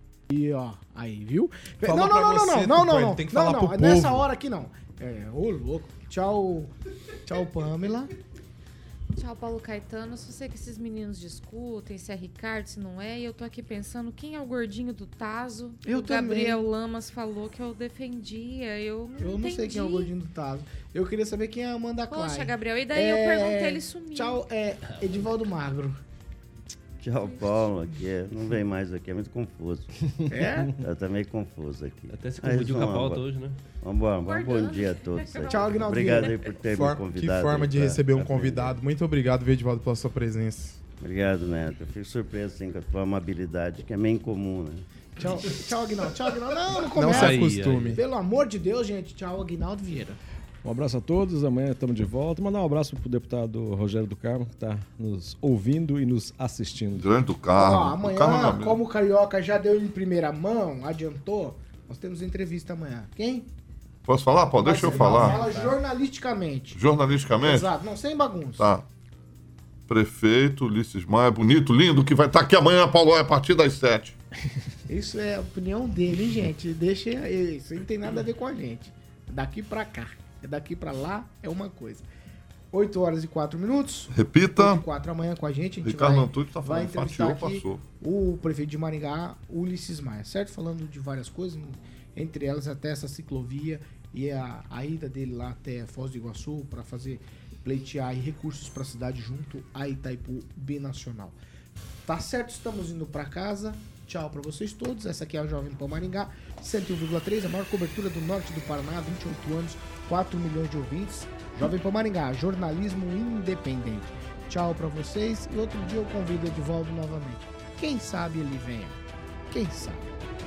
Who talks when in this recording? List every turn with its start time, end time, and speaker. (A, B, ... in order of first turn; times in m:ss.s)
0:00.3-0:06.7 A
0:01.8-0:04.2 B
0:07.2-0:08.1 A
0:09.2-0:20.1 C
0:15.8-0:16.7 A
0:19.2-0:26.0 A
0:22.1-0:24.4 C
0:27.0-0:29.9 D
0:30.3-0:30.7 A
0:30.8-0:33.3 D
0:32.1-0:33.6 E
0:33.8-0:38.8 D
0:34.2-0:36.1 C
0:35.5-0:36.4 A
0:36.7-0:40.8 B
0:41.0-0:44.9 D
0:45.2-0:50.2 A
0:46.9-0:48.0 B
0:47.0-0:48.0 E
0:50.6-0:57.1 F
0:57.0-0:58.8 G
0:57.5-1:03.5 A
1:04.1-1:05.6 G
1:04.6-1:06.8 A
1:06.8-1:07.7 G
1:07.4-1:08.7 A
1:08.6-1:08.9 G
1:09.9-1:14.2 G
1:14.9-1:22.1 A
1:22.7-1:41.4 A
1:24.1-1:24.8 G
1:25.8-1:27.8 G
1:42.0-2:00.1 A